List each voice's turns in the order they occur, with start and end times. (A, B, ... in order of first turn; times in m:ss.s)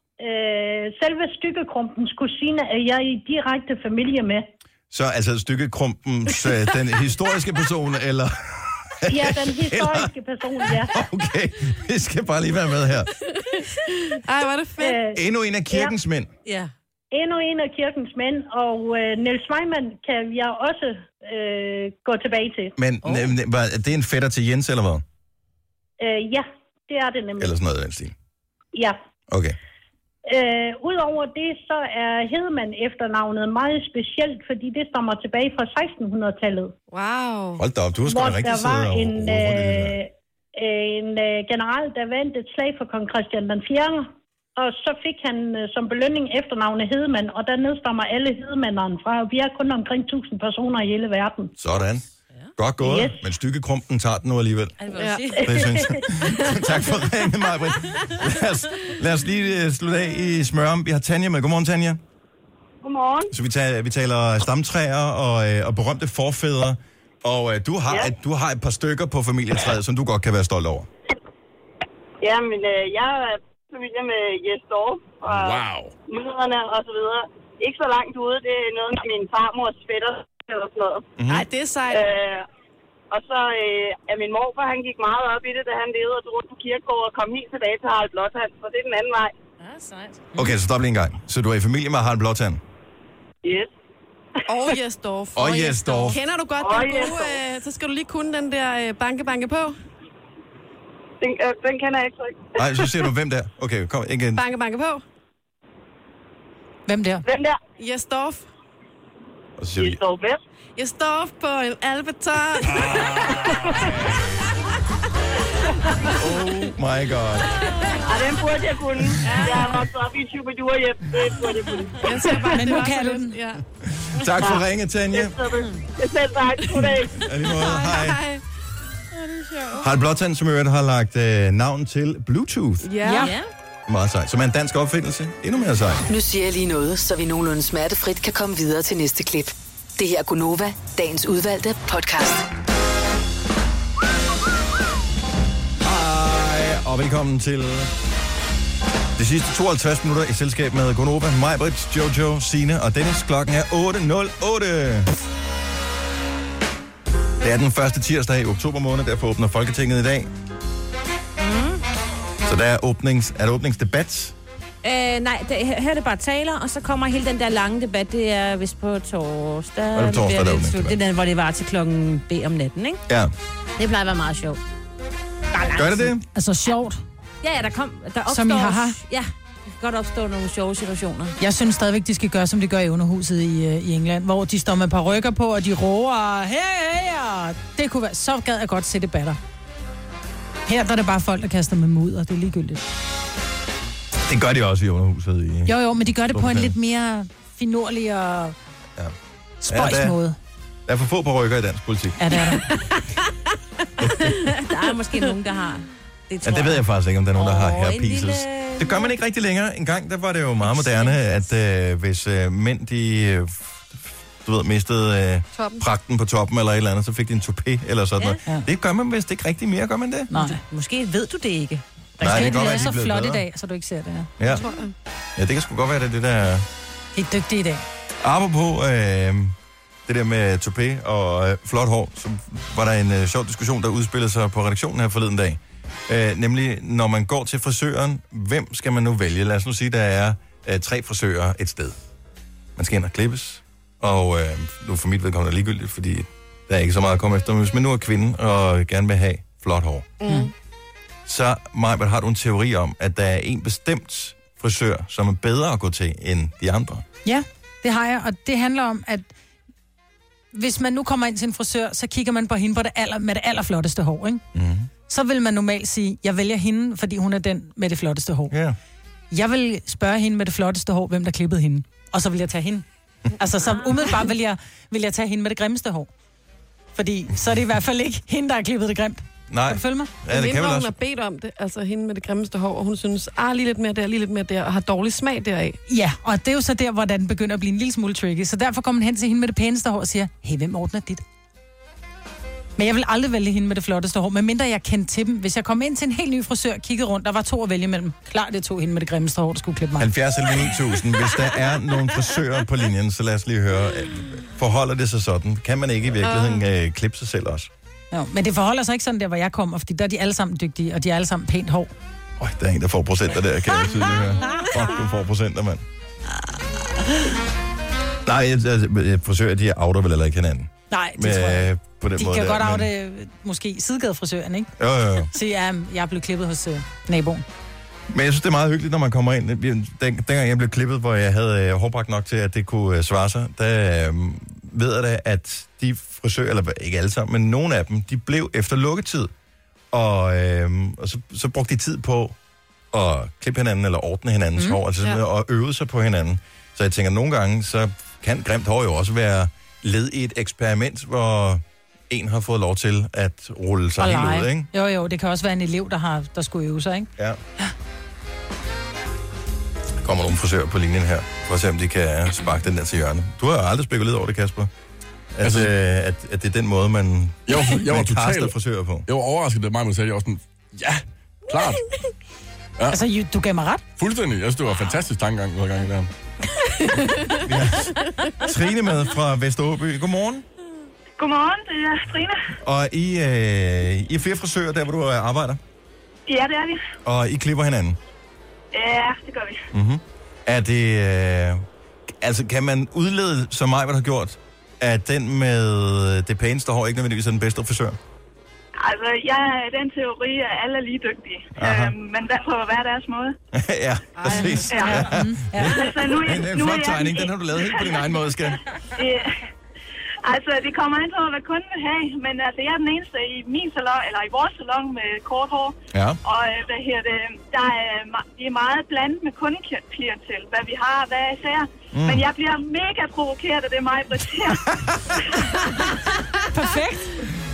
0:00.2-0:04.5 A
0:04.9-0:10.1 B
0:09.1-0:11.0 A
0:10.6-0:13.1 B
0:13.4-0:15.0 C
0:14.8-0:15.9 A
0:15.2-0:16.3 B
0:16.5-0:16.7 D
0:17.1-0:22.7 A
0:22.8-0:25.0 B
0:23.0-0:23.3 D
0:26.0-0:27.5 A
0:27.4-0:28.1 B
0:28.7-0:29.0 A
0:29.3-0:29.6 B
0:30.3-0:36.7 A
0:36.9-0:37.6 C
0:37.6-0:40.0 B
0:38.1-0:51.5 A
0:51.6-0:52.0 B
0:52.6-0:54.8 B
0:52.8-0:53.2 A
0:54.8-0:55.8 D
0:55.0-0:55.4 C
0:55.4-1:02.0 B
1:02.8-1:03.3 E
1:03.3-1:10.9 B
1:12.2-1:21.0 E
1:15.3-1:16.0 F
1:21.2-1:21.4 B
1:21.3-1:22.0 C
1:21.9-1:22.4 E
1:23.1-1:29.3 E
1:29.6-1:30.5 D
1:30.4-1:32.6 B
1:33.4-1:33.7 E
1:34.5-1:39.8 C
1:35.4-1:36.2 B
1:36.6-1:37.4 E
1:41.2-1:42.4 E
1:42.6-1:44.4 B
1:44.4-1:45.0 C
1:46.9-1:47.2 G
1:47.3-1:47.6 E
1:47.8-1:48.5 C
1:49.6-1:50.0 B
1:49.8-1:50.4 E
1:50.8-1:53.4 C
1:56.2-1:57.6 B
1:58.0-2:02.3 E
1:59.2-1:59.8 C
2:02.0-2:03.6 C
2:02.4-2:03.4 G
2:03.8-2:05.4 B
2:05.1-2:07.3 E
2:05.6-2:05.8 D
2:06.7-2:08.4 C
2:07.1-2:08.2 B
2:09.8-2:12.9 B
2:12.8-2:13.3 C
2:13.0-2:13.3 G
2:13.1-2:13.5 D
2:13.9-2:16.0 B
2:16.1-2:22.5 H
2:25.8-2:27.9 B
2:29.2-2:35.1 B
2:37.4-2:40.3 B
2:41.4-2:41.8 D
2:42.4-2:44.4 B
2:44.8-2:53.0 D
2:49.9-2:51.0 B
2:53.1-2:53.3 B
2:53.8-2:54.6 D
2:55.5-2:56.1 D
2:55.7-2:56.2 B
2:56.3-2:57.0 G
2:57.4-3:01.4 D
2:58.3-2:59.0 G
3:01.4-3:09.4 G
3:10.7-3:12.8 G
3:14.2-3:15.7 B
3:15.7-3:18.6 G
3:16.3-3:16.7 B
3:19.6-3:20.4 G
3:19.7-3:20.2 B
3:20.9-3:22.3 B
3:22.2-3:22.6 G
3:24.0-3:24.4 B
3:24.3-3:26.8 D
3:26.4-3:40.3 B
3:27.3-3:29.1 D
3:30.6-3:31.4 D
3:35.6-3:35.8 C
3:40.3-3:40.6 G
3:40.4-3:42.8 D
3:42.2-3:43.4 B
3:42.2-3:44.3 G
3:44.4-3:44.7 B
3:44.5-3:44.9 C
3:45.4-3:46.7 B
3:47.2-3:47.8 G
3:48.2-3:49.6 B
3:50.1-4:02.0 B
4:02.8-4:10.2 B
4:10.2-4:10.5 C
4:11.3-4:17.0 B
4:17.2-4:19.3 G
4:20.5-4:24.4 G
4:24.5-4:24.9 B
4:25.1-4:28.6 G
4:28.5-4:28.8 B
4:29.3-4:32.8 G
4:33.4-4:36.1 G
4:37.0-4:40.1 G
4:39.5-4:40.9 B
4:40.3-4:45.8 C
4:45.9-4:51.2 G
4:52.8-5:00.1 G
5:00.0-5:07.7 B
5:06.2-5:06.6 C
5:08.1-5:11.9 G
5:12.4-5:15.8 B
5:18.2-5:22.9 B
5:20.9-5:24.7 G
5:24.8-5:25.3 B
5:25.3-5:27.4 G
5:28.1-5:39.3 B
5:39.9-5:42.4 B
5:42.9-5:54.7 B
5:54.0-5:57.7 G
6:00.0-6:04.7 B
6:05.4-6:09.1 B
6:05.4-6:05.7 F
6:07.5-6:08.5 F
6:09.1-6:11.8 F
6:12.9-6:13.8 G
6:14.0-6:16.1 F
6:17.4-6:20.4 B
6:21.2-6:22.4 I
6:22.6-6:25.6 B
6:26.3-6:26.8 I
6:27.0-6:28.0 B
6:28.7-6:29.6 I
6:29.7-6:31.6 B
6:32.2-6:38.0 B
6:38.8-6:43.4 I
6:41.6-6:41.9 B
6:43.5-6:48.6 B
6:44.2-6:45.0 C
6:44.3-6:45.8 G
6:44.7-6:45.0 I
6:45.7-6:48.0 I
6:48.9-6:49.4 I
6:50.2-7:04.6 I
6:55.9-6:56.2 B
7:01.9-7:02.3 B
7:04.5-7:05.4 B
7:06.5-7:07.1 G